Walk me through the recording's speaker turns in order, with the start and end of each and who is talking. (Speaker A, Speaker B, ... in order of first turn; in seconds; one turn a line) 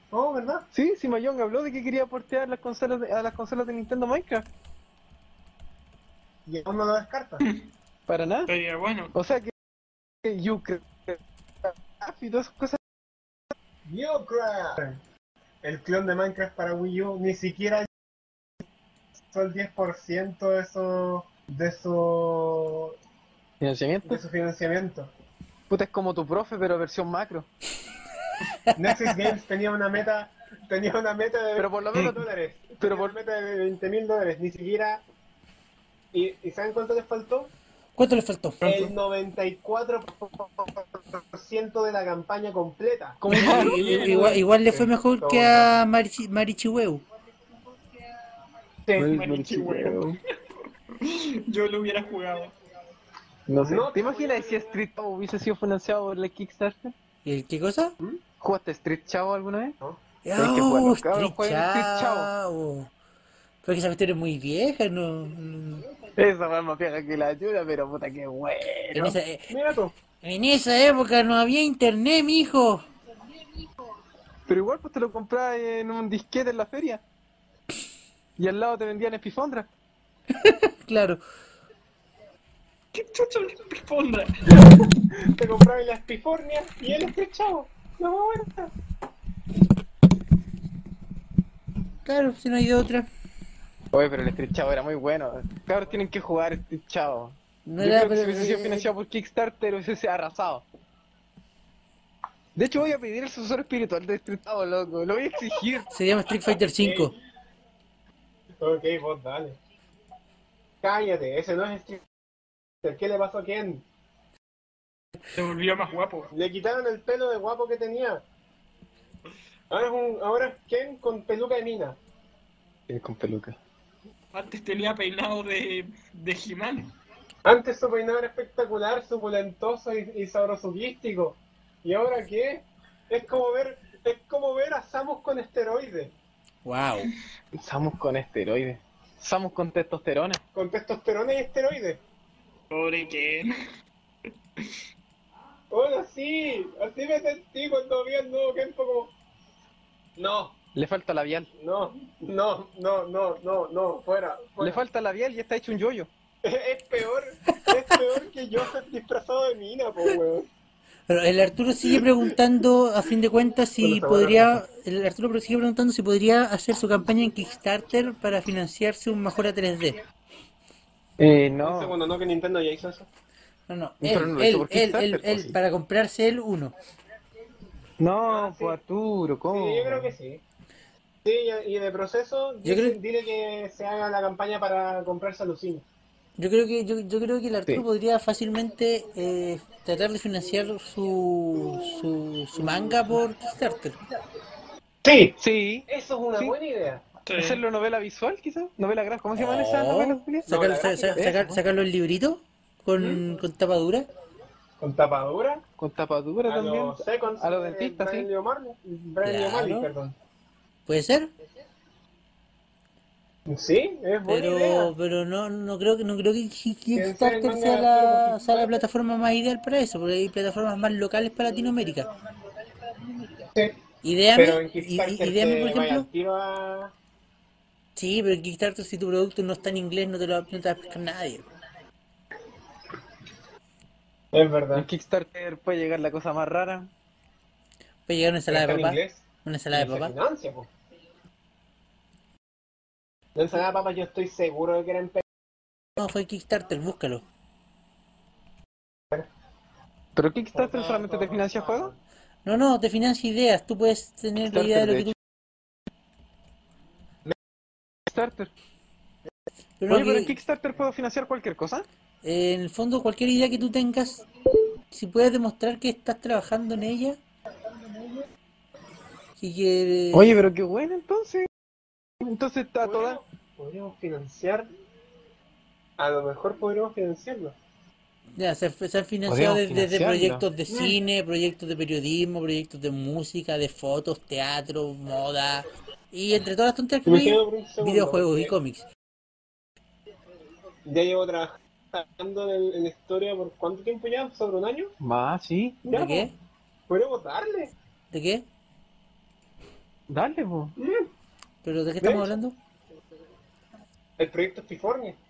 Speaker A: 0.1-0.7
Speaker B: 0.7-4.5
Speaker A: 6.5-7.4
Speaker B: 8.1-8.5
Speaker C: 8.5-9.1
Speaker B: 9.1-9.5
Speaker B: 10.2-12.8
Speaker A: 13.8-15.0
Speaker A: 15.6-17.9
Speaker A: 19.3-23.0
Speaker B: 23.6-24.2
Speaker A: 24.0-25.1
Speaker B: 25.7-27.5
Speaker A: 28.7-35.0
Speaker B: 31.6-32.2
Speaker B: 32.8-33.1
Speaker A: 36.1-37.5
Speaker D: 38.0-38.6
Speaker C: 38.6-38.9
Speaker A: 38.6-43.2
Speaker B: 43.2-44.3
Speaker C: 43.3-44.4
Speaker D: 43.3-47.0
Speaker A: 44.1-45.8
Speaker A: 48.9-49.2
Speaker B: 49.0-50.2
Speaker C: 49.1-50.1
Speaker C: 50.9-52.5
Speaker B: 53.5-56.9
Speaker A: 53.6-54.7
Speaker D: 57.2-57.9
Speaker B: 58.4-59.8
Speaker D: 60.2-62.9
Speaker B: 60.4-62.3
Speaker D: 63.6-65.8
Speaker B: 66.2-69.1
Speaker D: 68.9-69.5
Speaker A: 69.5-69.9
Speaker D: 70.2-72.8
Speaker B: 74.5-77.0
Speaker B: 78.4-79.7
Speaker D: 80.3-81.2
Speaker C: 82.9-84.6
Speaker A: 85.1-88.7
Speaker D: 92.0-93.1
Speaker B: 93.9-100.6
Speaker D: 97.7-98.9
Speaker B: 102.5-105.9
Speaker D: 105.9-107.1
Speaker A: 106.8-107.2
Speaker A: 108.6-109.6
Speaker A: 110.8-112.0
Speaker A: 112.8-113.8
Speaker C: 115.3-116.3
Speaker A: 116.3-118.2
Speaker A: 119.7-122.0
Speaker B: 122.9-123.6
Speaker C: 124.3-126.9
Speaker A: 127.4-136.1
Speaker D: 136.6-137.1
Speaker B: 137.5-140.4
Speaker A: 140.5-142.0
Speaker C: 142.7-143.5
Speaker A: 145.7-149.1
Speaker A: 150.2-150.6
Speaker B: 150.7-151.5
Speaker A: 151.6-154.8
Speaker B: 154.6-156.1
Speaker A: 156.4-160.5
Speaker D: 161.1-170.0
Speaker A: 161.9-162.3
Speaker A: 163.8-164.6
Speaker B: 171.2-171.9
Speaker A: 171.6-173.1
Speaker D: 173.7-176.7
Speaker B: 174.0-175.6
Speaker B: 178.0-180.1
Speaker A: 178.2-178.8
Speaker A: 179.5-180.4
Speaker A: 181.2-185.8
Speaker D: 182.6-183.0
Speaker D: 186.4-194.0
Speaker B: 192.6-193.0
Speaker A: 195.0-195.3
Speaker B: 195.4-196.5
Speaker A: 195.9-197.0
Speaker C: 197.2-197.6
Speaker B: 197.3-200.6
Speaker D: 199.3-204.1
Speaker A: 200.4-201.2
Speaker B: 201.1-201.6
Speaker A: 204.8-205.6
Speaker B: 205.8-208.3
Speaker A: 206.4-210.1
Speaker D: 209.2-209.9
Speaker D: 210.9-211.3
Speaker A: 213.5-214.9
Speaker D: 214.2-222.1
Speaker A: 216.9-218.8
Speaker D: 224.0-226.1
Speaker A: 224.3-226.9
Speaker D: 227.9-231.5
Speaker A: 234.3-234.9
Speaker B: 234.7-236.9
Speaker D: 238.1-240.1
Speaker A: 238.5-240.7
Speaker A: 243.3-245.2
Speaker D: 246.0-247.2
Speaker B: 250.1-251.9
Speaker A: 250.5-252.0
Speaker D: 252.4-255.1
Speaker B: 254.5-255.1
Speaker B: 258.1-258.5
Speaker D: 259.8-260.4
Speaker B: 259.9-261.9
Speaker D: 262.2-264.2
Speaker D: 264.9-267.2
Speaker D: 269.4-270.4
Speaker B: 270.1-271.5
Speaker B: 272.2-273.2
Speaker A: 272.8-274.7
Speaker A: 276.0-277.5
Speaker D: 278.4-288.8
Speaker B: 279.3-280.4
Speaker A: 280.7-281.0
Speaker A: 287.0-288.5
Speaker A: 290.8-294.9
Speaker B: 295.0-295.8
Speaker A: 295.8-296.3
Speaker D: 295.9-296.3
Speaker A: 296.9-297.7
Speaker D: 298.1-298.4
Speaker B: 300.1-300.7
Speaker A: 300.8-301.1
Speaker D: 301.6-302.6
Speaker A: 302.0-302.3
Speaker A: 304.2-305.2